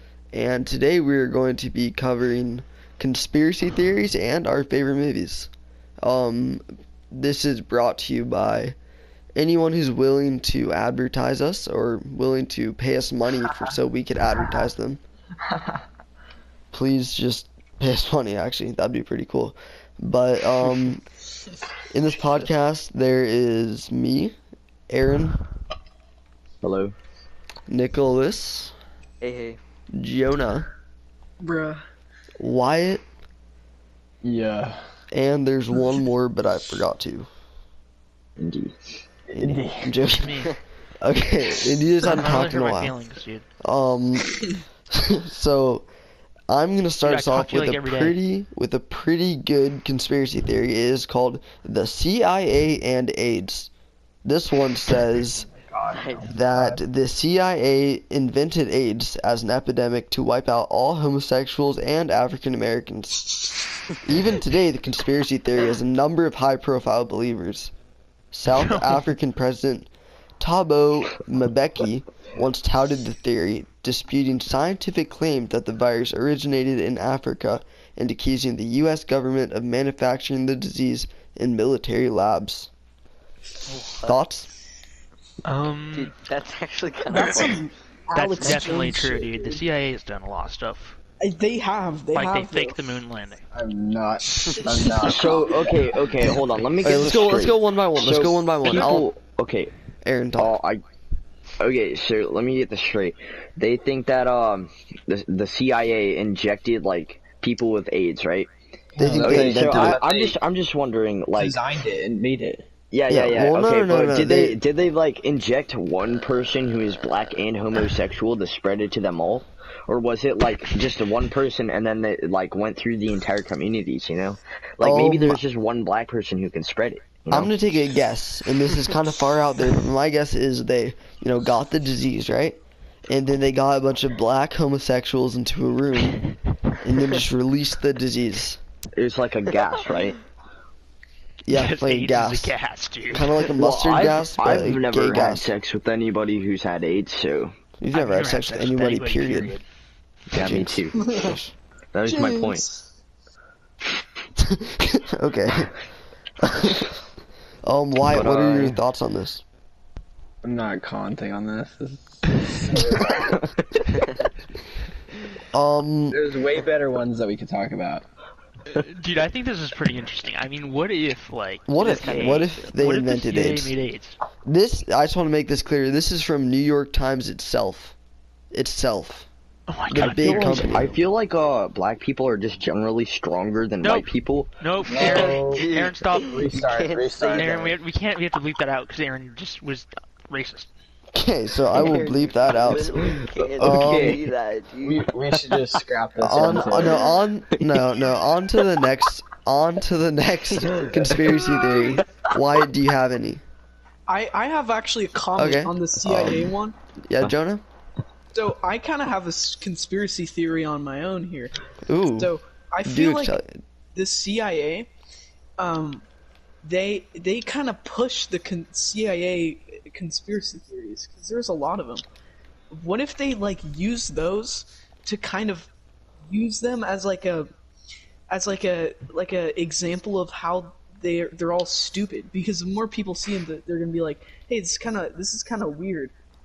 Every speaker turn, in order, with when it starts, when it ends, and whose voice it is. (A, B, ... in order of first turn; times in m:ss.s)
0:00.3-0:05.5 A
0:06.0-0:08.8 A
0:09.4-0:15.0 A
0:15.5-0:15.8 B
0:16.7-0:21.0 A
0:21.9-0:24.3 A
0:24.9-0:25.4 A
0:26.6-0:26.9 C
0:27.7-0:28.7 A
0:29.2-0:29.6 D
0:29.9-0:30.7 A
0:31.4-0:31.8 E
0:32.4-0:33.0 A
0:34.2-0:34.8 B
0:35.1-0:37.3 A
0:38.4-0:38.8 C
0:39.3-0:40.0 B
0:39.3-0:42.9 A
0:40.1-0:40.6 F
0:42.0-0:43.4 F
0:43.6-0:45.8 A
0:46.5-0:53.7 A
0:47.0-0:48.2 F
0:54.2-0:55.5 A
0:55.5-0:56.8 B
0:55.9-0:56.3 D
0:56.3-1:03.4 A
1:04.0-1:07.7 A
1:08.3-1:09.9 A
1:08.5-1:09.0 F
1:10.4-1:22.7 A
1:23.7-1:24.2 D
1:24.0-1:24.5 A
1:25.4-1:26.1 F
1:25.9-1:27.6 D
1:27.1-1:29.6 E
1:28.1-1:31.0 F
1:31.2-1:33.0 E
1:32.1-1:33.4 F
1:33.5-1:35.7 B
1:34.4-1:35.6 E
1:35.0-1:39.7 C
1:36.8-1:39.1 A
1:40.0-1:40.6 A
1:40.4-1:40.8 C
1:41.6-1:48.5 C
1:48.9-1:50.4 B
1:49.0-1:50.0 A
1:49.0-1:51.6 C
1:51.4-1:52.7 B
1:52.9-2:07.5 C
1:53.1-1:54.6 A
2:04.8-2:05.4 A
2:07.3-2:18.6 A
2:18.9-2:20.2 C
2:21.4-2:22.5 A
2:21.5-2:23.4 F
2:23.1-2:25.5 A
2:23.6-2:27.5 C
2:27.8-2:29.6 A
2:27.9-2:29.6 F
2:30.3-2:31.0 C
2:30.3-2:31.5 A
2:31.0-2:31.4 E
2:31.9-2:32.6 C
2:32.0-2:32.9 E
2:34.4-2:35.7 A
2:36.4-2:36.9 A
2:37.6-2:39.4 A
2:38.0-2:38.8 C
2:40.4-2:43.4 B
2:45.5-2:46.2 A
2:46.1-2:48.0 B
2:48.7-2:54.2 F
2:51.7-2:53.7 A
2:51.8-2:52.7 D
2:54.4-2:57.9 A
2:58.5-2:59.3 A
2:59.7-3:00.8 F
2:59.9-3:01.0 A
3:00.0-3:04.5 C
3:03.8-3:04.1 F
3:04.6-3:06.5 F
3:04.8-3:07.7 B
3:05.0-3:07.6 D
3:07.3-3:10.7 F
3:11.1-3:14.2 A
3:11.7-3:15.1 D
3:13.4-3:14.2 C
3:13.6-3:14.1 B
3:14.8-3:17.0 B
3:16.2-3:23.4 A
3:24.1-3:26.8 E
3:25.4-3:26.5 A
3:27.1-3:27.6 A
3:28.3-3:31.5 E
3:31.9-3:32.3 A
3:32.2-3:33.4 E
3:32.8-3:33.5 A
3:33.9-3:34.9 E
3:35.6-3:36.0 E
3:36.6-3:42.0 E
3:42.7-3:45.7 E
3:46.3-3:47.5 E
3:48.3-3:56.1 E